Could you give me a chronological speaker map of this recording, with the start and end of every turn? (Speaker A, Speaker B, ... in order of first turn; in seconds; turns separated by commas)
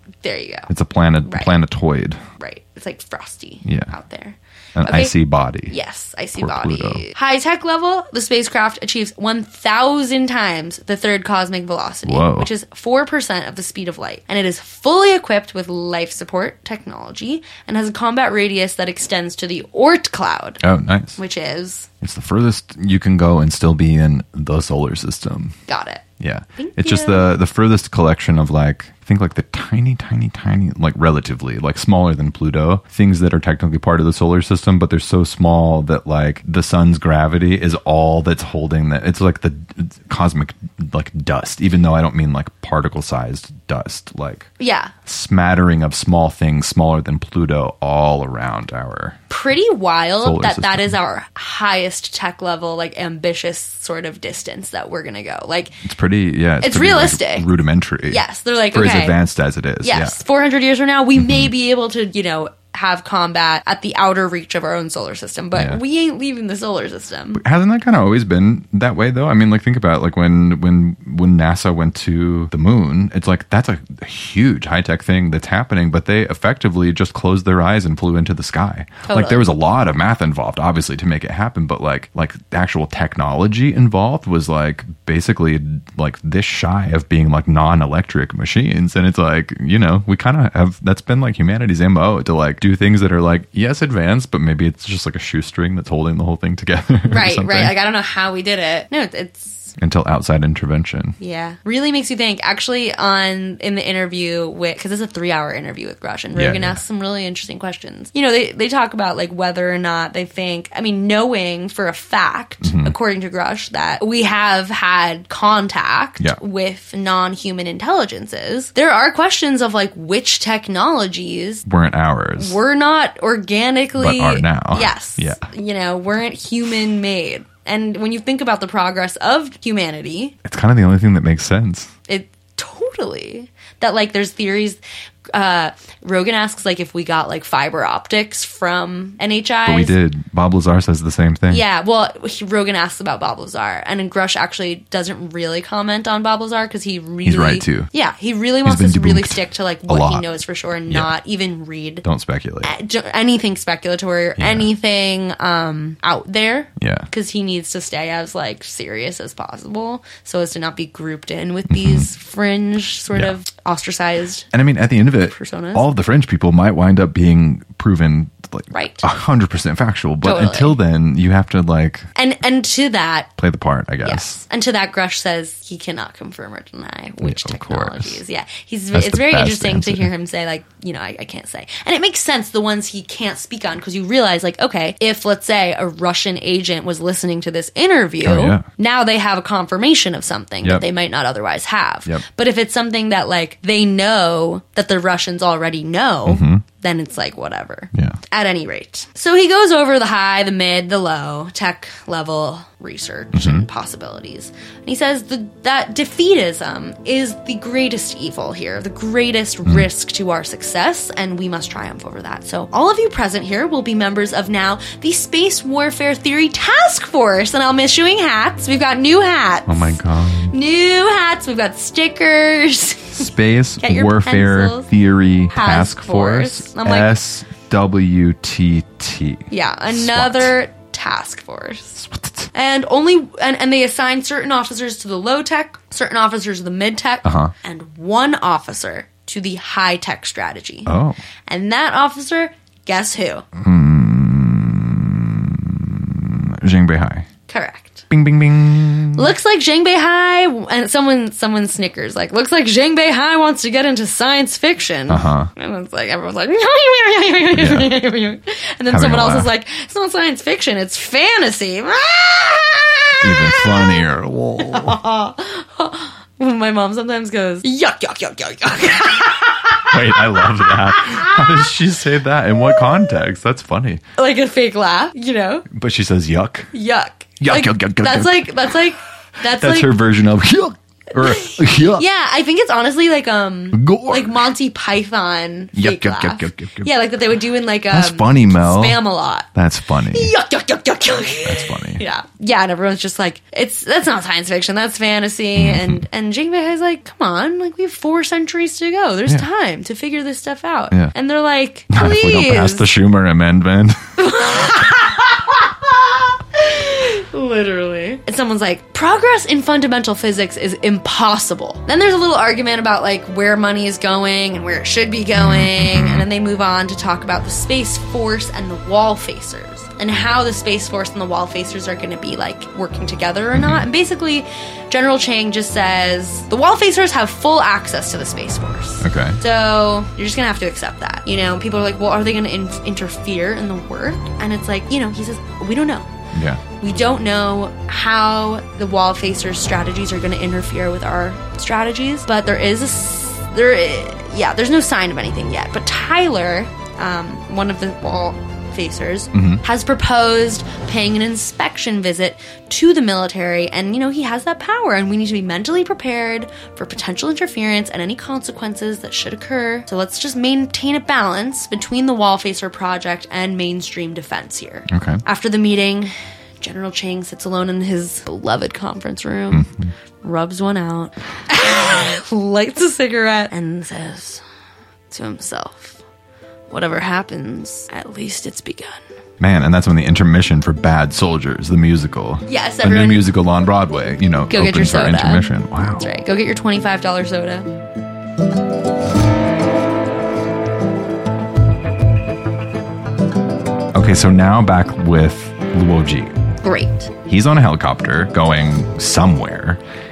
Speaker A: 0.2-0.7, Speaker B: 0.7-2.2, Speaker A: 1.2-1.6, Speaker A: 2.4-5.2, Speaker B: 3.6-3.9, Speaker B: 4.8-5.7, Speaker A: 5.7-20.6, Speaker B: 6.4-7.0, Speaker B: 12.1-12.5, Speaker B: 20.6-21.2, Speaker A: 21.2-21.9, Speaker B: 22.0-25.6, Speaker A: 25.7-26.0, Speaker B: 26.2-44.5, Speaker A: 26.6-27.3, Speaker A: 44.6-44.9, Speaker B: 45.1-49.2, Speaker A: 49.3-55.8, Speaker B: 50.2-51.0, Speaker B: 55.8-60.2, Speaker A: 56.6-57.5, Speaker A: 58.1-59.2, Speaker A: 59.8-67.4, Speaker B: 61.2-61.5, Speaker B: 65.5-65.8, Speaker B: 67.3-97.7, Speaker A: 79.0-79.5, Speaker A: 97.1-99.8, Speaker B: 99.8-101.2, Speaker A: 101.2-121.7, Speaker B: 106.3-106.8, Speaker B: 112.6-112.9, Speaker B: 121.7-122.6, Speaker A: 122.4-130.4, Speaker B: 124.0-125.4, Speaker B: 130.4-131.9, Speaker A: 132.1-134.8, Speaker A: 135.3-140.0, Speaker B: 139.7-141.6, Speaker A: 141.5-152.1, Speaker B: 147.2-147.9, Speaker B: 148.7-150.3, Speaker B: 152.0-152.7, Speaker A: 152.6-164.5, Speaker B: 154.4-154.7, Speaker B: 156.8-157.1, Speaker B: 161.7-162.1, Speaker B: 164.5-172.1, Speaker A: 165.2-165.8, Speaker A: 168.7-169.1, Speaker A: 170.2-170.8, Speaker A: 172.2-173.3, Speaker B: 173.4-174.4, Speaker A: 174.0-220.0, Speaker B: 177.2-178.2, Speaker B: 178.9-180.1, Speaker B: 188.2-188.7, Speaker B: 196.3-196.6, Speaker B: 203.3-203.7, Speaker B: 219.7-220.5, Speaker A: 220.5-223.3, Speaker B: 223.2-230.5, Speaker A: 223.8-224.9, Speaker A: 225.5-227.1, Speaker A: 229.5-232.0, Speaker B: 232.0-232.5, Speaker A: 232.5-240.9, Speaker B: 237.2-237.5, Speaker B: 240.9-241.2, Speaker A: 241.5-243.4, Speaker B: 243.6-247.3, Speaker A: 247.5-248.1, Speaker B: 248.1-249.3, Speaker A: 249.1-264.0, Speaker B: 255.1-255.5, Speaker B: 257.5-257.9, Speaker B: 258.9-259.5, Speaker B: 263.2-265.0, Speaker A: 264.6-271.6, Speaker B: 269.9-274.0, Speaker A: 274.2-275.7, Speaker B: 275.7-276.7, Speaker A: 276.7-279.9, Speaker B: 277.4-278.5, Speaker B: 279.6-282.0, Speaker A: 281.2-289.5, Speaker B: 283.7-284.4, Speaker B: 285.7-286.9, Speaker B: 287.9-289.0, Speaker B: 289.6-290.3, Speaker A: 290.1-302.9, Speaker B: 291.4-292.0, Speaker B: 295.6-296.1, Speaker B: 301.9-304.2, Speaker A: 304.2-336.1, Speaker B: 315.4-316.3, Speaker B: 323.5-323.9, Speaker B: 329.0-329.4, Speaker B: 336.3-336.6, Speaker A: 336.8-369.7, Speaker B: 349.3-349.6, Speaker B: 364.9-365.2, Speaker B: 369.5-369.9, Speaker A: 370.2-374.4, Speaker A: 375.1-376.0, Speaker A: 376.7-379.0, Speaker B: 379.4-386.1, Speaker A: 382.5-383.3, Speaker A: 384.5-385.4, Speaker A: 386.0-387.7, Speaker B: 393.9-396.4, Speaker A: 396.6-397.1, Speaker B: 397.3-399.8